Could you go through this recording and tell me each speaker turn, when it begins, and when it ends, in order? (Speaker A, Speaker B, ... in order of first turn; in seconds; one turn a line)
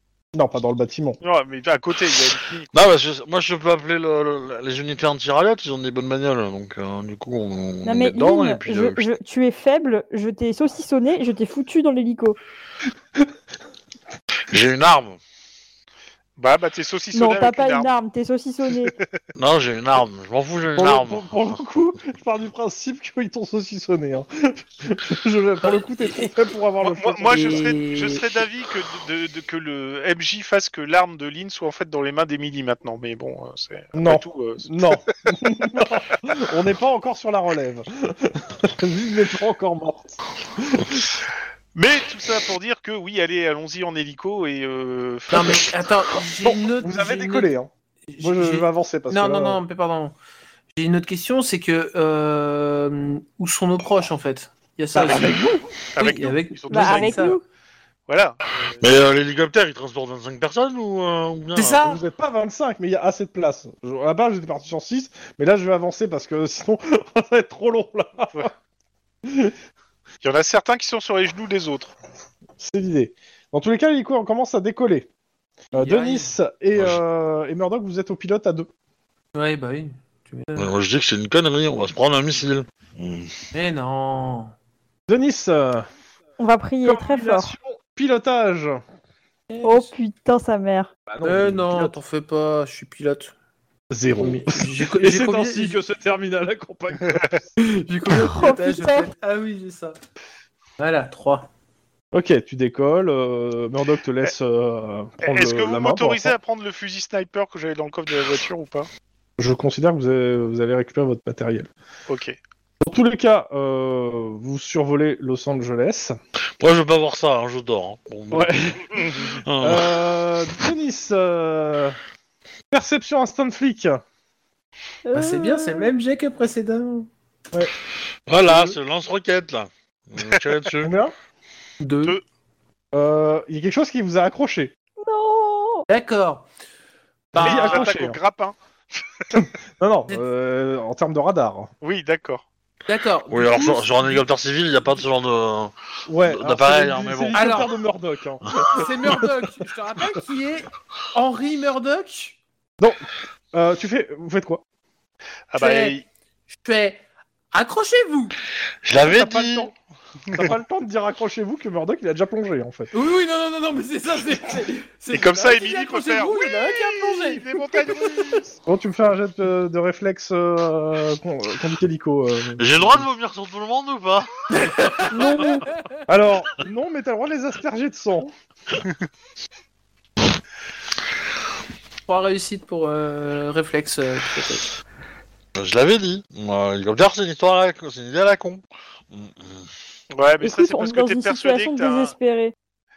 Speaker A: 0.3-1.2
Speaker B: 1.2-2.9
Speaker C: 2.7-9.1
Speaker D: 7.8-12.4
Speaker C: 14.5-15.2
Speaker B: 16.4-17.9
Speaker D: 17.1-18.9
Speaker C: 19.4-21.2
Speaker A: 20.8-27.7
Speaker B: 26.8-35.1
Speaker E: 27.3-28.3
Speaker A: 34.0-41.0
Speaker B: 41.8-45.7
Speaker E: 45.3-47.5
Speaker A: 46.4-49.6
Speaker E: 48.1-50.1
Speaker E: 50.7-57.4
Speaker A: 54.9-55.6
Speaker B: 56.0-57.4
Speaker D: 56.7-57.4
Speaker B: 58.1-58.8
Speaker C: 58.8-61.8
Speaker E: 61.6-62.0
Speaker A: 61.8-68.5
Speaker A: 69.3-69.5
Speaker B: 70.2-71.9
Speaker A: 72.6-75.1
Speaker A: 75.7-78.7
Speaker E: 75.8-76.3
Speaker E: 79.3-80.7
Speaker C: 80.6-83.3
Speaker E: 83.5-84.5
Speaker A: 85.1-85.9
Speaker D: 86.4-87.5
Speaker A: 86.8-88.8
Speaker E: 89.5-89.9
Speaker D: 89.6-90.9
Speaker A: 91.1-91.9
Speaker E: 91.2-93.3
Speaker A: 93.9-97.5
Speaker E: 94.1-95.8
Speaker E: 97.6-100.0
Speaker D: 98.1-99.1
Speaker E: 100.8-101.5
Speaker A: 102.1-106.3
Speaker B: 105.2-108.9
Speaker A: 109.4-111.7
Speaker B: 112.1-112.4
Speaker A: 112.8-116.2
Speaker C: 116.6-120.0
Speaker A: 118.3-122.0
Speaker B: 119.0-119.3
Speaker A: 122.7-124.0
Speaker D: 125.1-125.9
Speaker E: 125.1-127.1
Speaker C: 128.3-131.0
Speaker E: 128.4-128.8
Speaker A: 130.8-131.1
Speaker E: 131.8-132.2
Speaker A: 132.9-134.7
Speaker D: 135.0-135.9
Speaker E: 135.9-136.5
Speaker A: 137.3-138.2
Speaker E: 137.4-137.8
Speaker B: 137.4-138.6
Speaker A: 139.3-141.7
Speaker B: 141.8-142.4
Speaker E: 142.9-144.2
Speaker C: 143.3-147.7
Speaker A: 146.1-149.3
Speaker E: 147.3-147.7
Speaker E: 148.6-152.4
Speaker A: 152.8-154.6
Speaker B: 155.5-156.1
Speaker E: 155.6-156.0
Speaker E: 156.6-158.4
Speaker C: 158.8-159.7
Speaker A: 159.0-159.7
Speaker A: 160.3-162.9
Speaker E: 162.9-168.4
Speaker B: 165.1-168.5
Speaker A: 168.6-173.1
Speaker C: 172.6-174.3
Speaker E: 174.5-176.0
Speaker D: 175.1-175.6
Speaker A: 176.1-178.3
Speaker E: 182.1-184.8
Speaker C: 185.6-189.7
Speaker B: 190.1-192.1
Speaker D: 190.4-192.5